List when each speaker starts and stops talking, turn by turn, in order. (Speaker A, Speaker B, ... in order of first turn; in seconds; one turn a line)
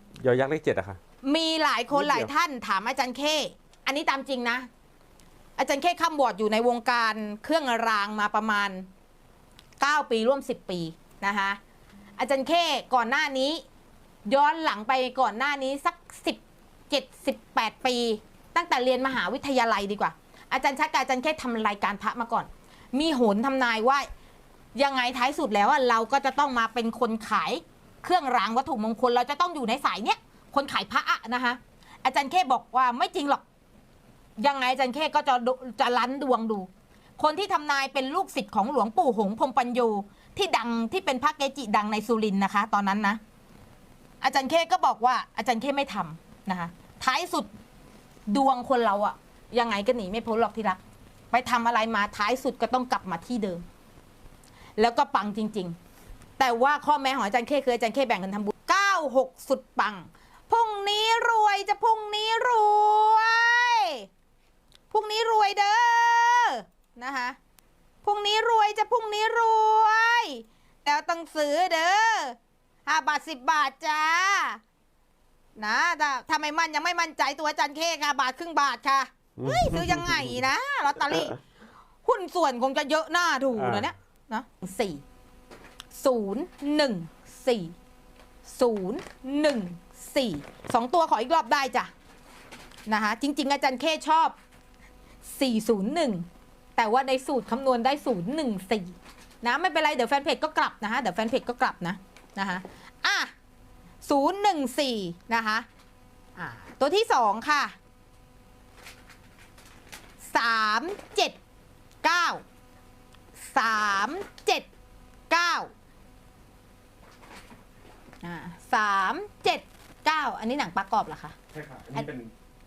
Speaker A: 0.2-1.0
Speaker B: 1.2-4.7
Speaker A: 1.9-2.3
Speaker B: 5.6-8.9
Speaker B: 9.8-11.6
Speaker B: 12.2-13.6
Speaker B: 14.2-24.1
Speaker B: 24.7-33.4
Speaker B: 34.4-43.2
Speaker B: 44.2-47.5
Speaker B: 48.3-53.6
Speaker B: 54.8-55.8
Speaker B: 56.4-64.1
Speaker B: 64.9-67.4
Speaker B: 68.0-74.6
Speaker B: 75.5-81.4
Speaker A: 79.4-80.4
Speaker B: 82.0-85.0
Speaker A: 83.5-83.9
Speaker B: 85.9-87.7
Speaker B: 88.5-91.9
Speaker B: 92.9-94.3
Speaker B: 95.2-103.3
Speaker B: 104.0-105.7
Speaker B: 106.3-107.8
Speaker B: 110.2-111.4
Speaker B: 112.0-112.4
Speaker B: 113.5-114.7
Speaker B: 115.3-115.7
Speaker B: 118.2-121.3
Speaker A: 121.5-122.3